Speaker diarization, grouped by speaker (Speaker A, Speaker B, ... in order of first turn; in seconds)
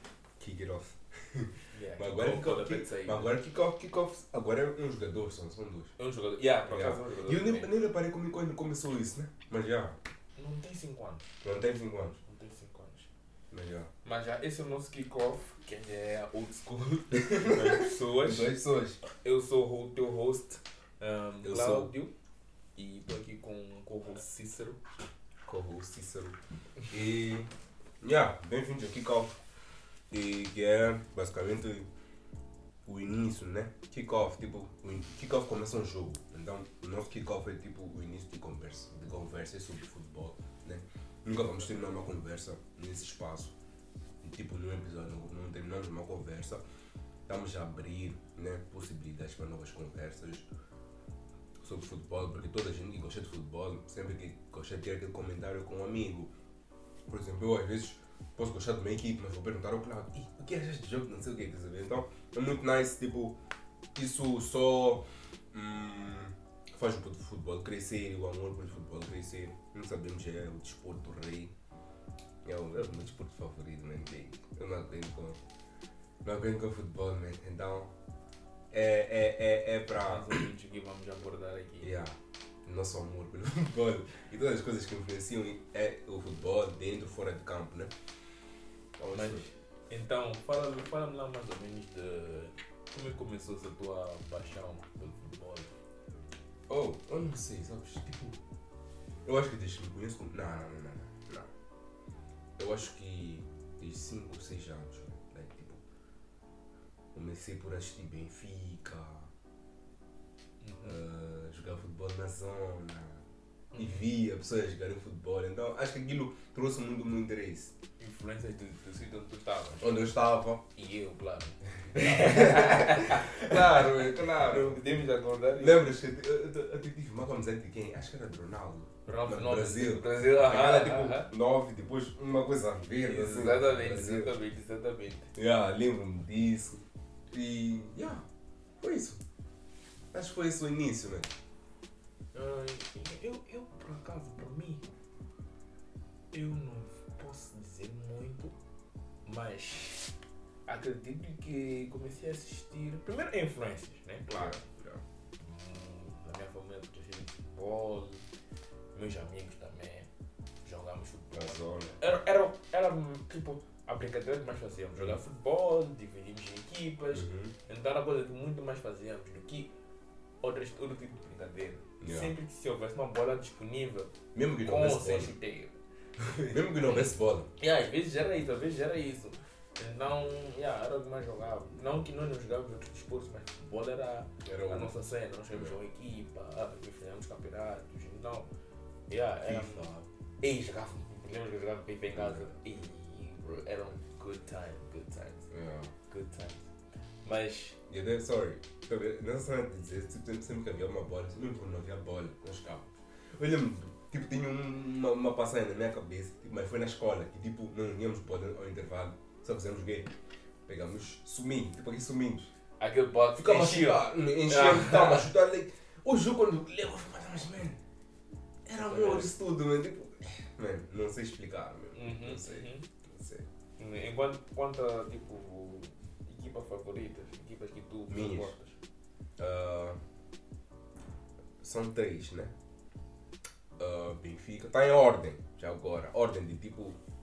Speaker A: 0.4-5.9, 6.7-10.0, 11.4-12.2, 13.5-13.9, 17.1-19.0, 21.4-21.9, 25.4-27.5, 28.0-29.4, 30.1-31.9, 32.9-43.5, 44.2-46.6, 47.3-50.5, 51.6-56.3, 57.1-63.4, 63.9-71.5, 72.4-75.4, 76.2-77.9, 78.7-80.4, 81.8-87.9, 89.0-89.5, 96.7-98.3, 99.2-101.5, 102.6-105.8, 107.1-109.3, 110.8-113.2, 113.7-117.7, 119.8-120.6, 121.9-124.8, 125.6-134.3, 135.3-138.2, 138.8-139.2, 140.1-141.3, 154.3-155.0, 161.3-162.1, 167.1-167.5, 172.0-172.3, 174.3-175.3, 176.4-177.5, 184.4-184.9, 189.4-190.1, 192.1-192.5, 195.5-195.9, 197.9-210.1, 210.7-212.5, 213.3-217.8, 218.7-223.5, 228.1-228.5, 229.4-230.0, 231.6-232.5, 233.8-237.0
Speaker B: 1.7-3.4, 6.0-7.7, 10.3-11.3, 12.2-13.1, 14.0-18.5, 19.1-22.1, 22.8-24.8, 80.0-81.9, 89.1-95.7, 110.6-111.0, 113.7-114.0, 118.0-120.0, 120.7-125.9, 129.1-131.3, 133.0-135.3, 142.3-144.8, 146.3-148.5, 149.2-150.1, 150.7-154.6, 155.4-158.2, 158.9-160.1, 160.6-169.7, 170.4-175.7, 177.6-188.5, 189.1-189.9, 190.4-195.5, 196.1-196.7, 197.2-197.8, 212.8-215.3, 218.8-219.3, 221.9-222.9, 223.8-228.8